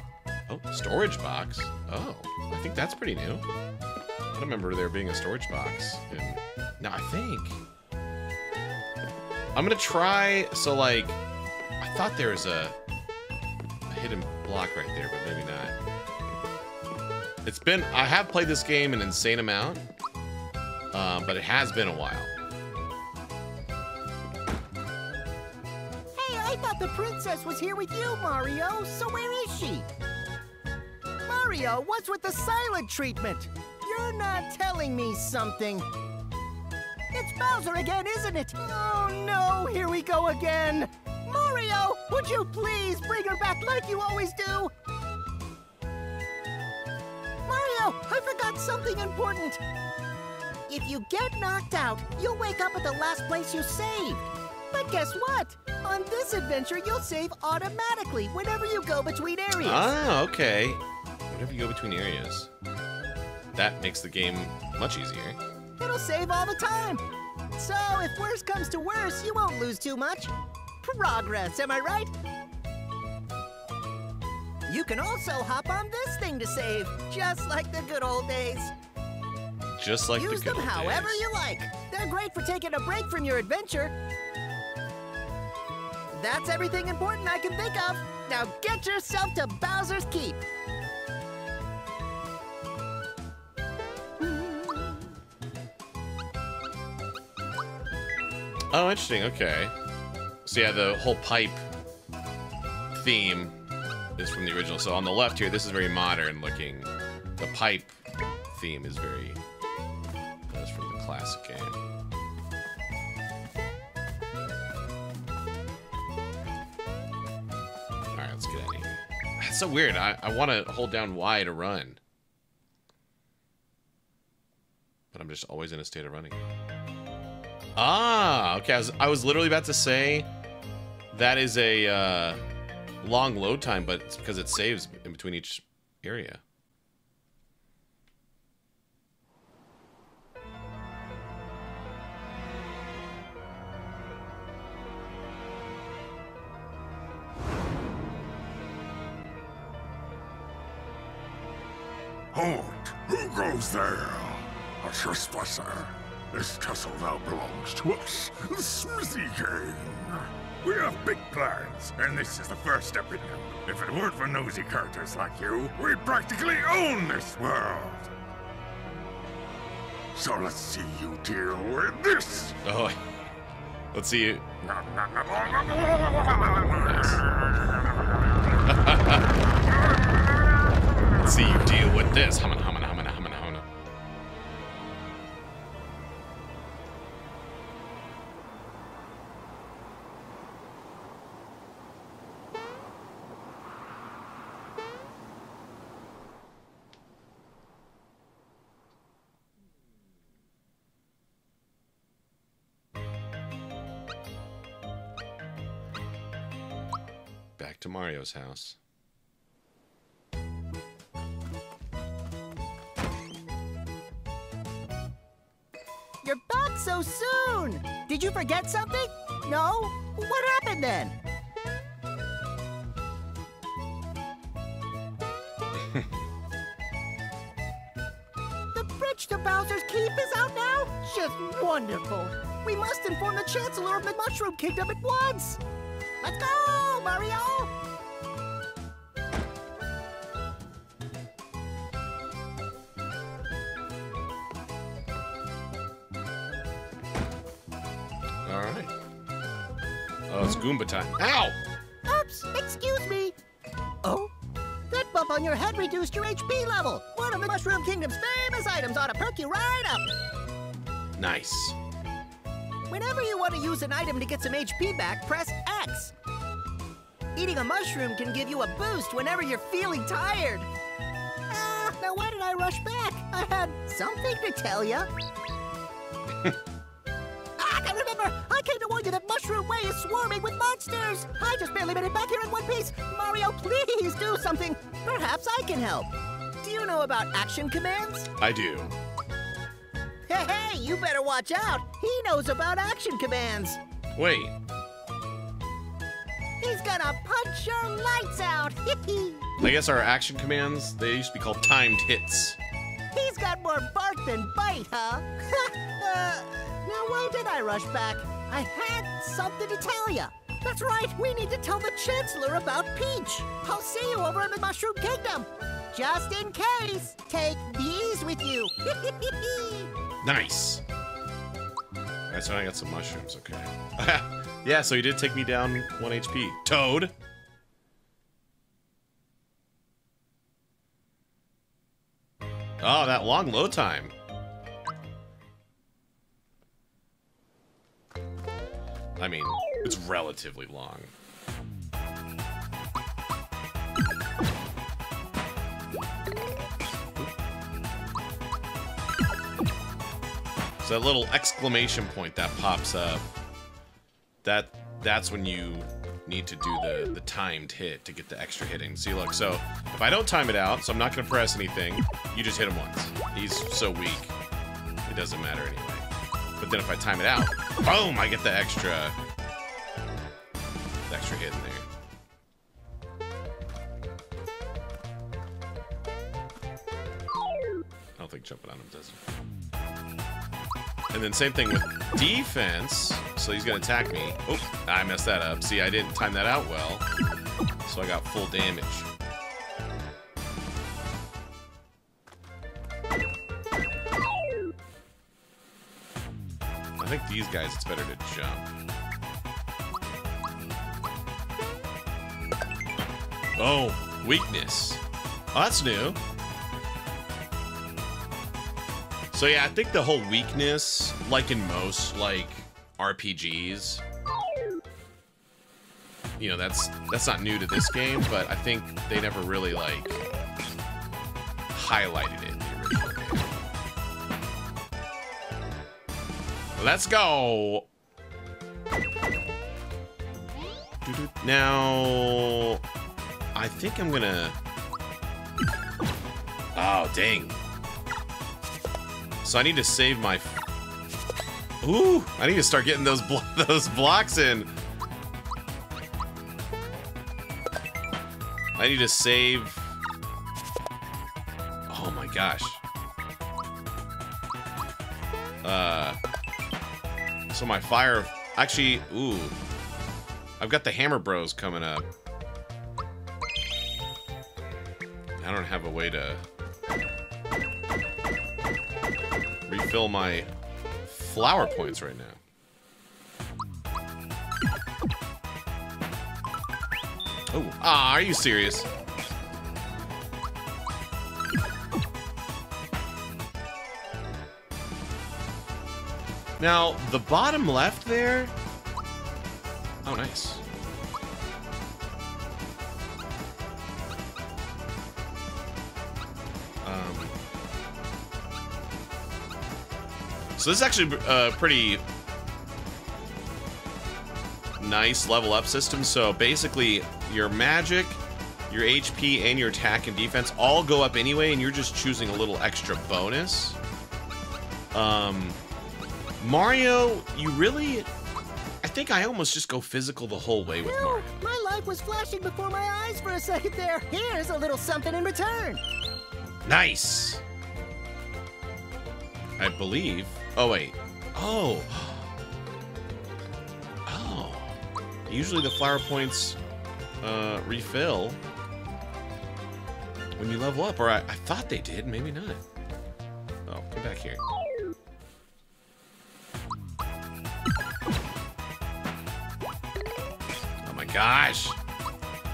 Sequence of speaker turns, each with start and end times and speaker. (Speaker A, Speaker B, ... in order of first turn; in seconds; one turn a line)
Speaker A: 0.5-3.4
Speaker A: 4.3-7.6
Speaker A: 9.5-11.2
Speaker A: 11.8-12.8
Speaker A: 13.9-15.7
Speaker A: 17.4-19.8
Speaker A: 20.9-22.3
Speaker B: 26.1-29.9
Speaker B: 31.2-35.9
Speaker B: 37.1-44.7
Speaker B: 47.5-49.6
Speaker B: 50.7-59.9
Speaker A: 59.6-62.5
Speaker A: 63.5-65.4
Speaker B: 65.8-67.0
Speaker B: 67.5-72.1
Speaker B: 74.7-78.7
Speaker A: 79.8-81.2
Speaker B: 80.1-83.9
Speaker B: 86.1-90.4
Speaker B: 94.2-94.8
Speaker A: 98.7-99.7
Speaker A: 100.4-101.6
Speaker A: 102.9-103.5
Speaker A: 104.2-107.9
Speaker A: 108.5-109.4
Speaker A: 110.5-111.8
Speaker A: 118.1-122.0
Speaker A: 125.1-126.4
Speaker A: 127.8-130.3
Speaker A: 131.1-132.4
Speaker A: 133.0-136.4
Speaker C: 153.2-154.1
Speaker C: 154.8-159.7
Speaker C: 160.6-167.8
Speaker C: 170.2-172.4
Speaker A: 172.6-173.0
Speaker A: 173.9-174.6
Speaker A: 175.4-175.6
Speaker A: 176.7-177.2
Speaker A: 178.7-179.2
Speaker A: 181.2-183.6
Speaker A: 207.6-208.8
Speaker B: 216.2-221.2
Speaker B: 228.7-235.6
Speaker B: 236.2-237.7
Speaker A: 248.4-248.9
Speaker A: 250.3-251.6
Speaker B: 252.1-253.3
Speaker B: 254.0-254.3
Speaker B: 254.9-260.1
Speaker A: 261.2-261.8
Speaker B: 262.9-266.1
Speaker B: 267.3-270.7
Speaker B: 271.5-275.1
Speaker B: 277.6-288.3
Speaker A: 288.4-288.9
Speaker B: 290.3-293.8
Speaker A: 294.1-294.5
Speaker B: 296.6-299.5
Speaker A: 299.6-302.6
Speaker B: 303.1-319.9
Speaker A: 320.2-320.8
Speaker A: 322.3-327.1
Speaker A: 332.8-334.1
Speaker A: 339.2-341.1
Speaker A: 350.8-353.2
Speaker A: 354.4-364.3
Speaker A: 365.1-366.1
Speaker A: 366.6-369.1
Speaker A: 371.1-371.9
Speaker A: 378.2-379.2
Speaker A: 381.1-387.0
Speaker A: 387.9-389.1
Speaker A: 397.0-398.7
Speaker A: 403.6-405.0
Speaker A: 405.5-406.2
Speaker A: 409.3-414.0
Speaker A: 416.4-420.1
Speaker A: 421.7-423.5
Speaker A: 426.8-427.9
Speaker A: 431.0-432.8
Speaker A: 433.5-434.6
Speaker A: 436.7-437.5
Speaker A: 439.4-440.6
Speaker A: 441.8-444.7
Speaker A: 448.8-449.9
Speaker A: 451.9-452.8
Speaker A: 455.6-456.2
Speaker A: 457.5-459.5
Speaker A: 460.6-462.0
Speaker A: 465.4-466.4
Speaker A: 469.7-470.5
Speaker A: 471.1-472.4
Speaker A: 477.5-478.9
Speaker A: 486.6-488.5
Speaker A: 490.0-490.6
Speaker A: 496.8-497.3
Speaker A: 500.6-502.0
Speaker A: 504.8-513.8
Speaker A: 514.9-515.6
Speaker A: 516.4-518.1
Speaker A: 518.8-521.4
Speaker B: 520.8-525.8
Speaker A: 526.6-527.4
Speaker A: 529.6-532.3
Speaker A: 534.0-534.8
Speaker A: 535.3-536.6
Speaker A: 537.2-538.4
Speaker A: 540.4-542.6
Speaker A: 543.7-544.4
Speaker A: 550.8-551.8